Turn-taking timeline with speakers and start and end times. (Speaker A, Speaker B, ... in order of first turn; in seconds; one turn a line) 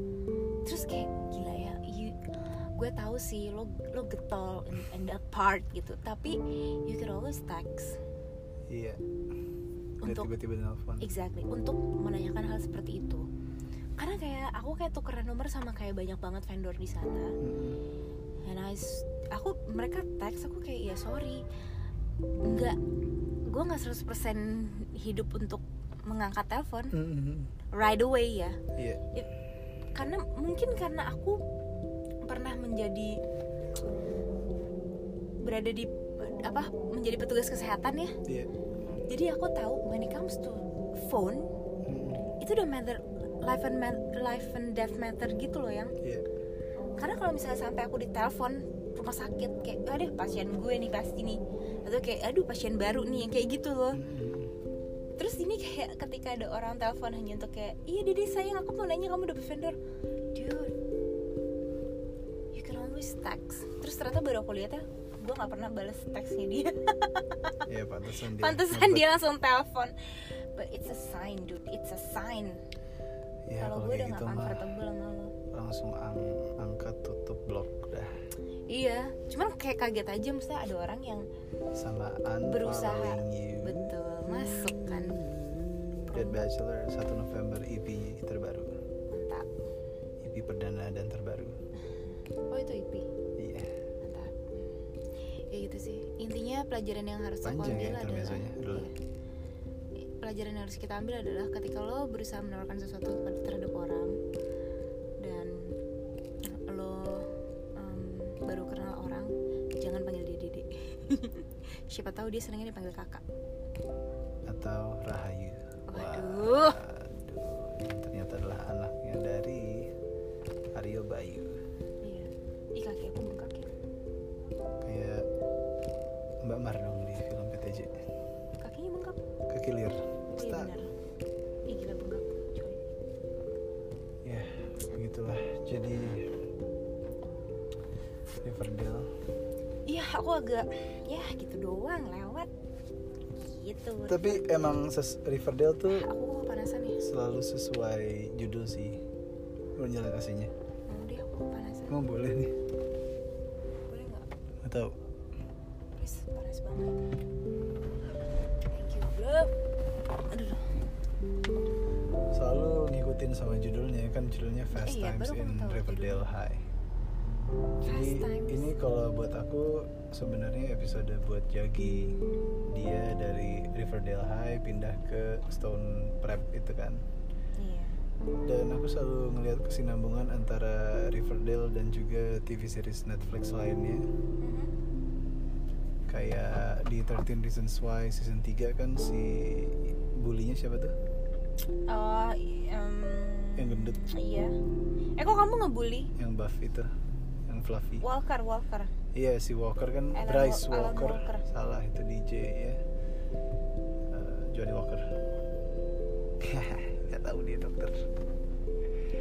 Speaker A: 0.6-2.2
Speaker A: 2.8-8.0
Speaker B: 8.7-9.0
Speaker A: 10.0-10.3
Speaker B: 10.0-11.1
Speaker A: 11.0-13.2
Speaker A: 14.0-17.4
Speaker B: 17.4-17.8
Speaker A: 18.4-21.4
Speaker A: 22.4-22.8
Speaker A: 23.4-26.9
Speaker B: 26.9-27.5
Speaker A: 27.7-28.6
Speaker A: 29.9-31.4
Speaker A: 32.2-33.2
Speaker A: 35.4-38.1
Speaker A: 38.9-41.5
Speaker B: 41.8-42.2
Speaker A: 42.4-45.9
Speaker A: 47.0-54.0
Speaker B: 53.9-54.5
Speaker A: 55.2-59.8
Speaker A: 60.3-60.7
Speaker A: 62.5-67.6
Speaker B: 67.7-69.2
Speaker A: 68.3-72.6
Speaker B: 73.5-74.6
Speaker A: 73.6-75.3
Speaker B: 75.5-78.1
Speaker A: 78.7-81.2
Speaker B: 81.7-88.7
Speaker A: 82.4-85.2
Speaker A: 86.1-86.4
Speaker A: 89.1-89.5
Speaker B: 90.2-91.5
Speaker A: 91.8-93.1
Speaker B: 93.4-93.7
Speaker A: 94.0-94.8
Speaker A: 95.5-98.9
Speaker B: 97.4-98.9
Speaker A: 100.0-104.2
Speaker A: 105.2-105.7
Speaker A: 106.4-113.2
Speaker B: 114.5-119.9
Speaker A: 115.9-116.8
Speaker B: 120.7-121.6
Speaker A: 122.0-123.7
Speaker B: 124.8-125.2
Speaker B: 126.4-128.0
Speaker A: 128.6-129.2
Speaker B: 129.5-130.7
Speaker A: 130.3-130.9
Speaker A: 131.7-132.8
Speaker B: 134.2-136.3
Speaker B: 138.4-139.1
Speaker A: 139.9-142.5
Speaker A: 143.3-144.7
Speaker B: 144.1-146.1
Speaker A: 145.9-147.0
Speaker B: 147.0-149.0
Speaker B: 149.8-150.5
Speaker A: 150.9-152.0
Speaker B: 151.9-152.5
Speaker A: 153.9-154.3
Speaker B: 154.6-155.0
Speaker A: 155.9-157.0
Speaker A: 158.5-159.5
Speaker A: 160.3-160.8
Speaker B: 162.3-166.6
Speaker A: 164.8-166.3
Speaker B: 167.8-172.2
Speaker A: 167.8-168.7
Speaker B: 172.7-177.0
Speaker A: 177.6-178.0
Speaker B: 178.4-184.0
Speaker A: 184.4-184.7
Speaker B: 186.1-190.9
Speaker A: 191.9-194.6
Speaker B: 193.6-194.2
Speaker A: 195.2-196.1
Speaker B: 196.2-196.9
Speaker B: 197.5-198.0
Speaker A: 198.0-198.9
Speaker B: 199.1-202.8
Speaker A: 200.1-201.4
Speaker B: 204.1-205.1
Speaker B: 206.4-208.0